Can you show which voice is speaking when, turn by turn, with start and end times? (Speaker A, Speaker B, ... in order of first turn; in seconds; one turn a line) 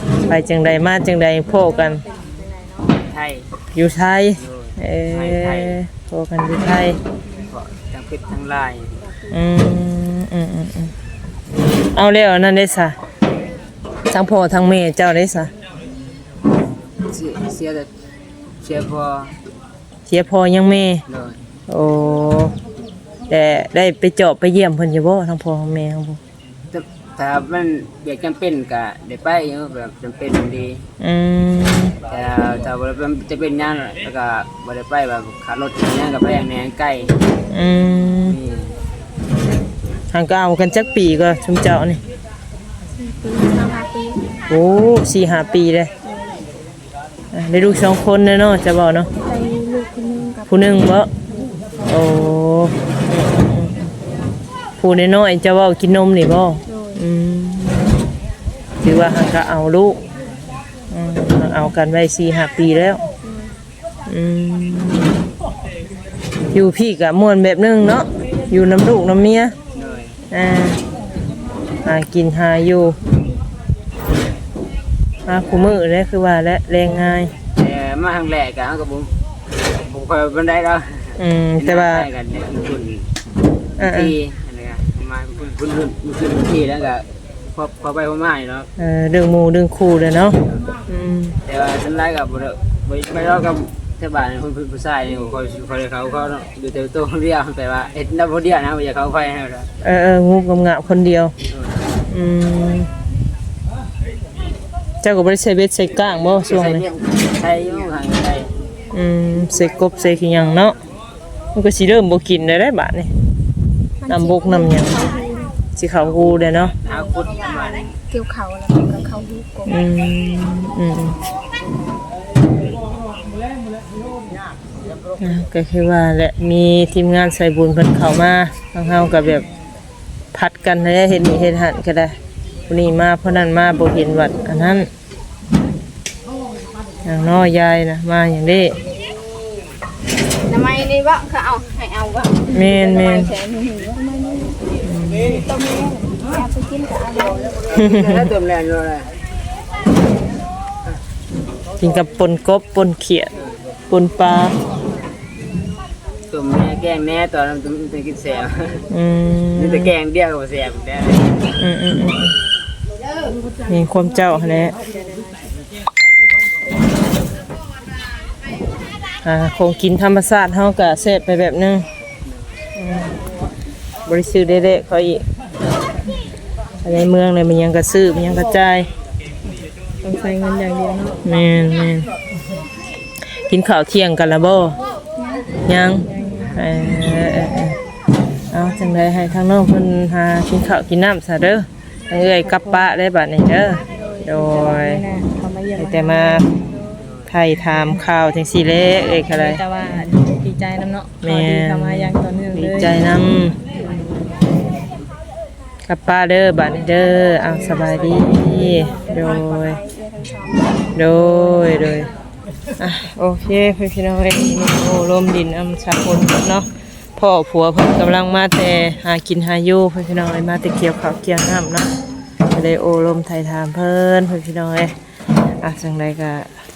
Speaker A: 0.2-2.0
Speaker B: 1.6-3.0
Speaker C: 3.1-3.5
Speaker A: 3.7-7.0
Speaker C: 4.4-5.8
Speaker C: 7.4-9.1
Speaker A: 9.3-10.9
Speaker A: 11.9-13.0
Speaker A: 14.1-15.5
Speaker C: 17.0-17.9
Speaker C: 18.6-19.4
Speaker A: 20.1-21.0
Speaker C: 21.1-21.4
Speaker A: 21.7-22.6
Speaker A: 23.3-26.2
Speaker C: 26.7-30.8
Speaker A: 31.0-31.9
Speaker C: 32.1-37.1
Speaker A: 37.5-38.4
Speaker C: 38.3-38.8
Speaker A: 40.1-42.0
Speaker B: 42.9-44.2
Speaker A: 44.5-45.9
Speaker B: 46.0-46.4
Speaker A: 47.3-49.1
Speaker B: 49.2-51.0
Speaker A: 50.5-51.1
Speaker A: 51.9-53.9
Speaker A: 54.8-58.0
Speaker B: 56.7-57.0
Speaker A: 58.8-60.0
Speaker A: 60.9-63.0
Speaker B: 63.2-63.5
Speaker A: 64.1-65.2
Speaker A: 66.5-69.6
Speaker C: 69.7-70.2
Speaker A: 70.3-70.8
Speaker A: 71.8-73.0
Speaker A: 75.3-77.3
Speaker C: 77.6-79.1
Speaker C: 79.7-83.1
Speaker A: 81.2-82.1
Speaker A: 83.8-84.2
Speaker C: 83.8-88.7
Speaker A: 88.8-91.4
Speaker C: 91.5-99.7
Speaker A: 99.8-101.3
Speaker C: 101.5-101.8
Speaker A: 102.1-102.9
Speaker A: 105.0-106.8
Speaker C: 106.4-108.5
Speaker A: 108.9-110.8
Speaker A: 111.5-113.1
Speaker B: 114.0-115.6
Speaker A: 114.1-115.0
Speaker A: 115.8-116.8
Speaker C: 116.2-117.9
Speaker B: 116.9-119.8
Speaker A: 119.7-121.2
Speaker A: 125.2-129.5
Speaker A: 130.3-132.2
Speaker A: 132.7-134.9
Speaker A: 137.1-138.8
Speaker C: 140.5-142.4
Speaker B: 142.4-144.6
Speaker A: 142.5-143.3
Speaker A: 144.8-145.4
Speaker B: 145.3-147.7
Speaker C: 147.7-149.1
Speaker A: 147.8-148.3
Speaker A: 151.8-153.3
Speaker C: 153.3-153.6
Speaker A: 153.9-154.5
Speaker C: 156.3-158.9
Speaker A: 158.9-159.9
Speaker C: 159.6-161.6
Speaker A: 161.6-162.4
Speaker A: 163.7-164.8
Speaker A: 169.2-171.9
Speaker A: 172.8-173.1
Speaker A: 174.1-175.2
Speaker A: 176.8-178.9
Speaker D: 180.0-181.2
Speaker A: 181.2-182.1
Speaker A: 183.5-184.8
Speaker B: 185.2-185.5
Speaker A: 185.7-187.8
Speaker D: 186.0-186.6
Speaker A: 188.5-195.0
Speaker D: 192.2-192.9
Speaker B: 193.9-194.5
Speaker D: 194.4-196.5
Speaker A: 195.8-196.4
Speaker C: 197.0-197.3
Speaker A: 197.3-199.6
Speaker D: 199.3-202.9
Speaker A: 201.2-203.6
Speaker D: 203.8-204.3
Speaker A: 205.9-209.8
Speaker D: 207.6-209.1
Speaker B: 208.1-210.9
Speaker A: 210.9-212.1
Speaker A: 212.8-221.9
Speaker A: 222.5-224.9
Speaker A: 225.6-226.5